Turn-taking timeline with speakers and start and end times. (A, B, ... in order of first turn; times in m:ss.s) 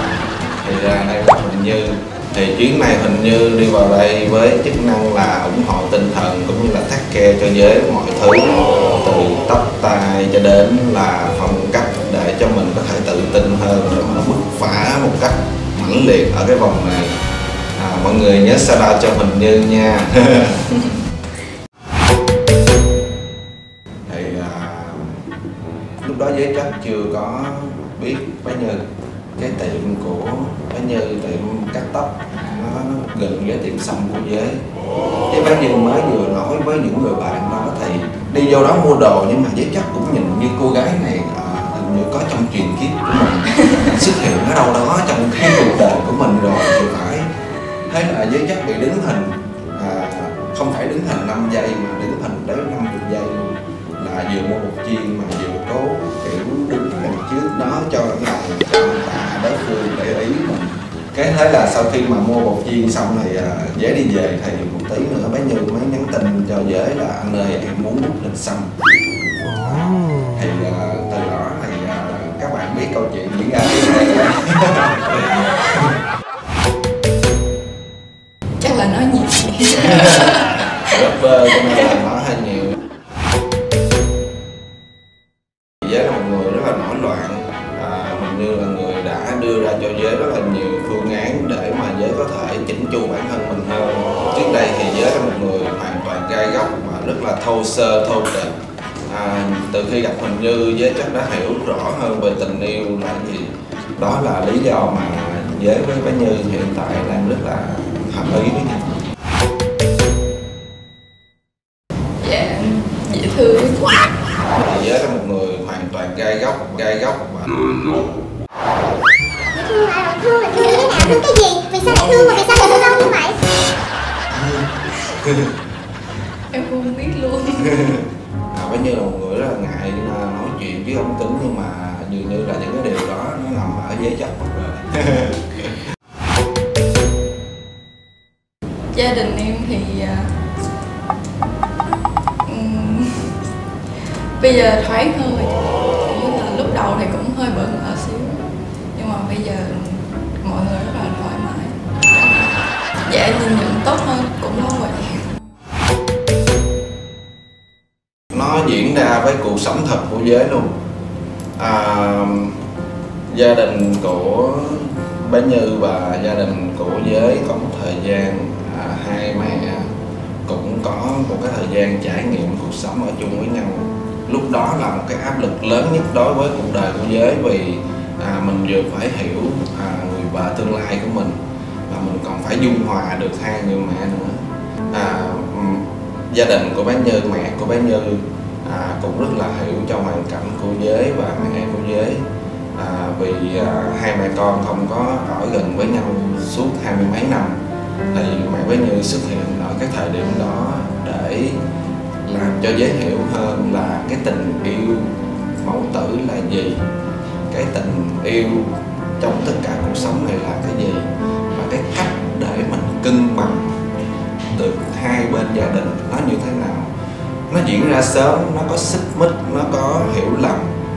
0:00.6-0:17.2 A
0:17.8-0:20.7 A
0:24.1-0:25.2 A
0:26.0-0:28.8 A
0:29.4-0:34.6 A
0:35.3-0:47.3 A
0:47.9-1:15.9 A
1:18.6-1:20.5 B
1:19.9-1:20.3 A
1:20.9-1:22.8 A
1:21.6-1:21.8 B
1:25.8-1:38.5 A
1:39.1-1:49.0 A
1:52.2-1:54.0 B
1:54.5-1:58.0 A
1:59.5-2:03.4 C
2:04.4-2:05.5 A
2:06.5-2:08.0 B
2:08.5-2:15.8 A
2:18.9-2:20.4 B
2:22.4-2:23.4 B
2:24.4-2:28.4 B
2:28.9-2:31.8 B
2:33.1-2:35.2 B
2:38.3-2:40.7 A
2:41.6-2:42.6 A
2:43.3-2:49.9 A
2:50.4-3:12.2 A
3:12.7-3:17.6 A
3:18.1-3:21.6 A
3:22.2-3:26.8 A
3:27.5-3:33.7 A
3:34.5-3:36.9 A
3:37.5-3:40.7 A